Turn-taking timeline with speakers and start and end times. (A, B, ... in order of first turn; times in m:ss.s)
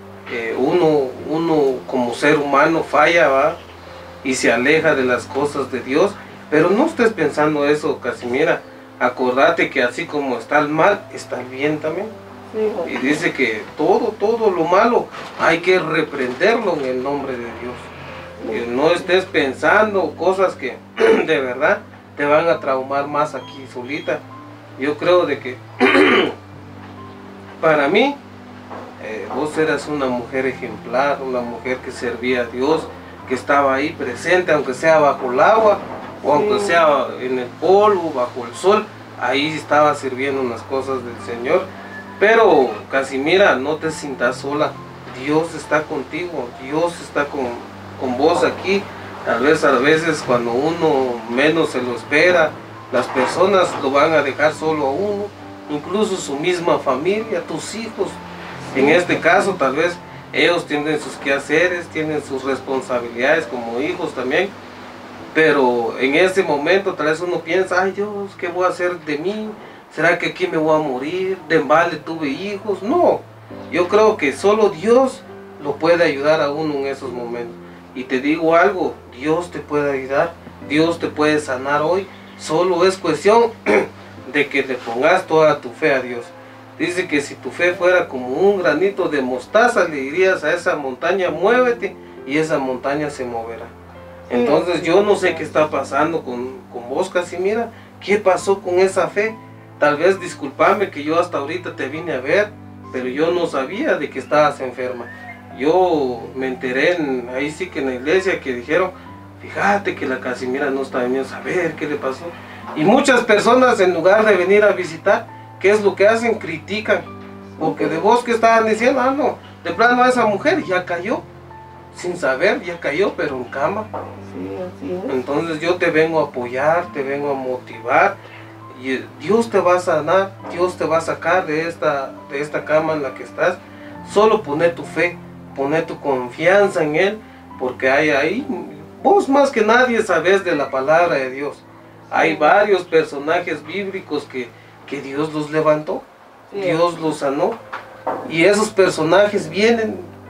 0:00.3-0:03.6 A
0:04.2-0:12.1 A
0:12.5-0:13.0 B
0:12.8-0:17.9 A
0:18.4-0:18.6 B
0:18.5-0:24.2 A
0:24.8-0:26.3 A
0:27.6-0:28.2 A
0:29.0-0:41.7 A
0:36.2-0:36.8 B
0:42.2-0:58.2 A
0:58.7-0:59.5 B
0:58.7-1:04.5 A
1:05.3-1:33.7 A
1:34.3-1:57.1 A
1:34.3-1:35.4 B
1:57.6-1:58.1 B
1:57.6-2:01.2 A
2:01.9-2:03.9 A
2:04.2-2:05.2 B
2:05.1-2:08.2 A
2:08.7-2:27.6 A
2:22.1-2:22.5 B
2:26.5-2:26.8 B
2:28.3-2:30.1 A